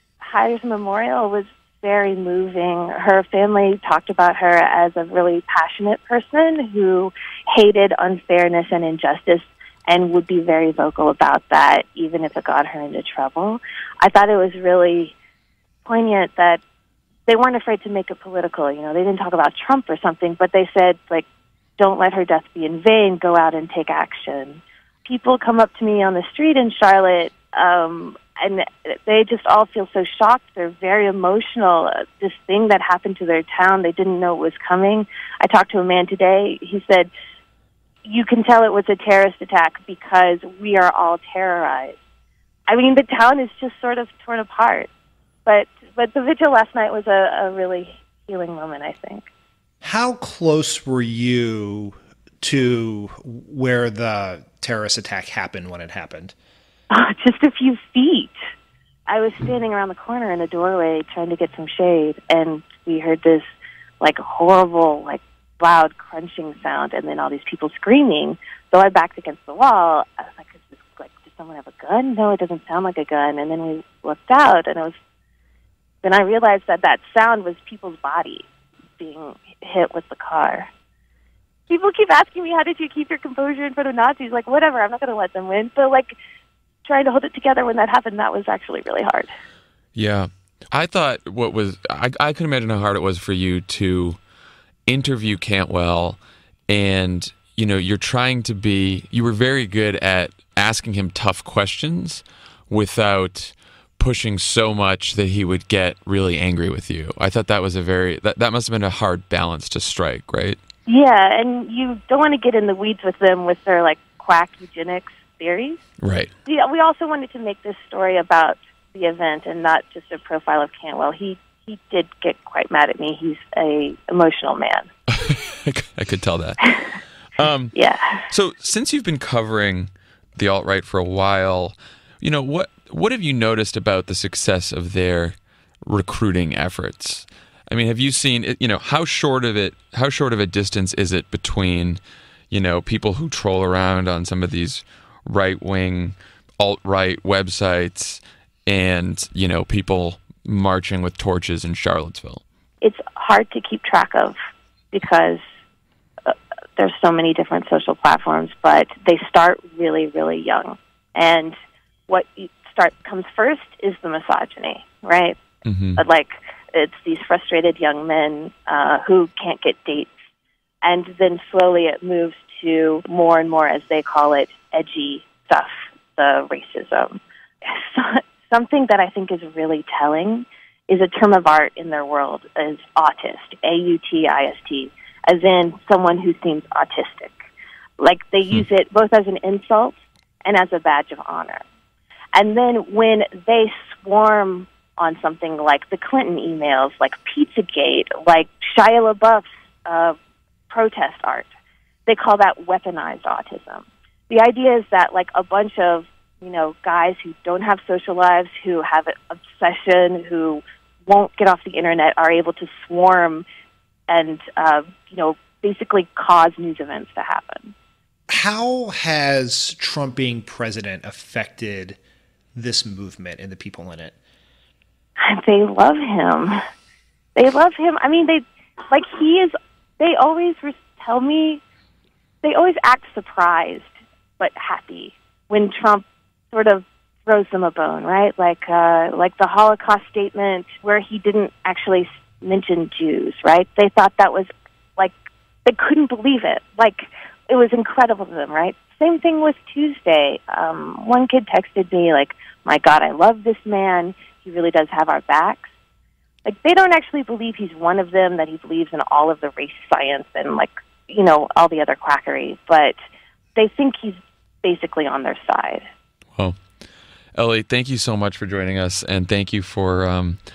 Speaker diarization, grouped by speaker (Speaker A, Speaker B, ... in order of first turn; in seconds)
Speaker A: 0.2-15.1, 15.8-16.6, 17.3-21.2, 21.8-37.1, 38.0-42.0, 42.7-44.9, 45.5-49.3, 56.9-58.3, 59.1-63.5, 64.0-75.0, 76.0-78.5, 79.0-80.7, 81.7-86.1, 86.8-89.3, 110.9-115.8, 116.5-124.9, 127.7-128.3, 152.8-154.3, 154.9-155.4, 156.2-161.6, 162.1-165.4, 166.0-170.1, 170.8-187.3, 188.0-191.6, 192.3-200.2, 200.7-201.5, 202.1-213.4, 214.1-217.7, 225.2-226.6, 227.3-231.6, 232.4-245.1, 245.6-255.7, 256.4-262.9, 263.6-265.9
Speaker B: 49.8-56.3, 218.3-222.0, 222.5-224.1
Speaker C: 90.0-94.2, 94.9-110.6, 116.0-116.3, 125.1-126.7, 127.4-127.7, 128.3-142.0, 142.5-152.4, 165.7-166.0, 267.3-270.4